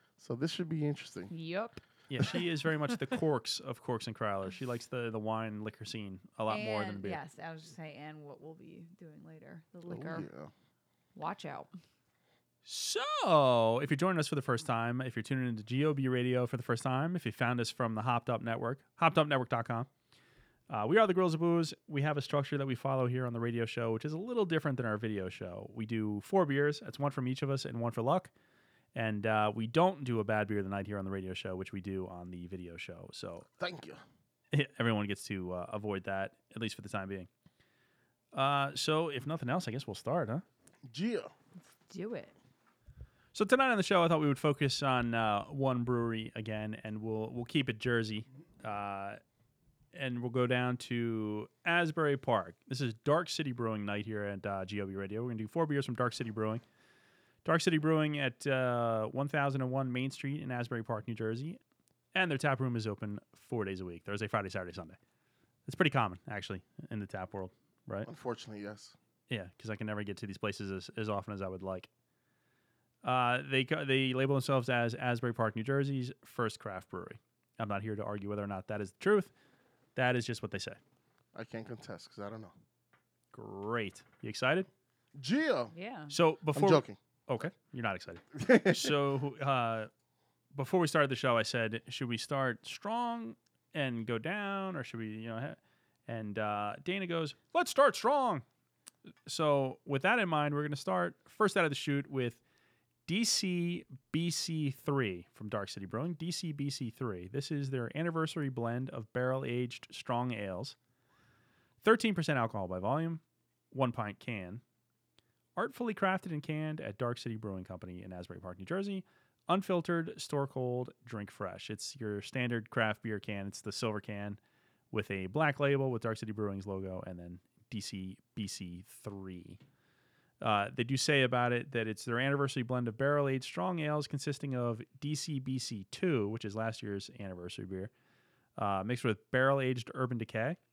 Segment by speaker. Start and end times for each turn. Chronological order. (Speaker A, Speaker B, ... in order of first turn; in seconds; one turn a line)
Speaker A: 0.2-1.3
Speaker B: 1.3-3.0
Speaker C: 2.1-7.2
Speaker B: 6.5-10.3
Speaker A: 9.9-10.5
Speaker B: 11.2-11.8
Speaker C: 12.6-19.9
Speaker C: 20.7-28.3
Speaker C: 28.9-33.5
Speaker A: 33.6-34.0
Speaker C: 34.5-37.3
Speaker C: 38.3-40.4
Speaker A: 40.9-41.3
Speaker B: 41.8-42.3
Speaker C: 43.3-49.2
Speaker C: 49.9-56.6
Speaker C: 57.4-61.6
Speaker C: 62.1-65.0
Speaker C: 65.7-68.1
Speaker A: 68.0-68.9
Speaker C: 69.3-71.9
Speaker C: 73.0-79.3
Speaker C: 80.0-80.8
Speaker A: 81.3-82.5
Speaker C: 83.3-84.7
Speaker A: 85.2-85.7
Speaker B: 85.7-86.1
Speaker C: 86.1-89.9
Speaker A: 86.5-87.0
Speaker A: 88.3-89.0
Speaker C: 90.5-98.4
Speaker C: 99.2-102.4
Speaker C: 103.1-110.8
Speaker C: 111.8-114.6
Speaker C: 115.5-124.4
Speaker C: 124.9-129.6
Speaker C: 130.4-137.9
Speaker C: 138.6-140.6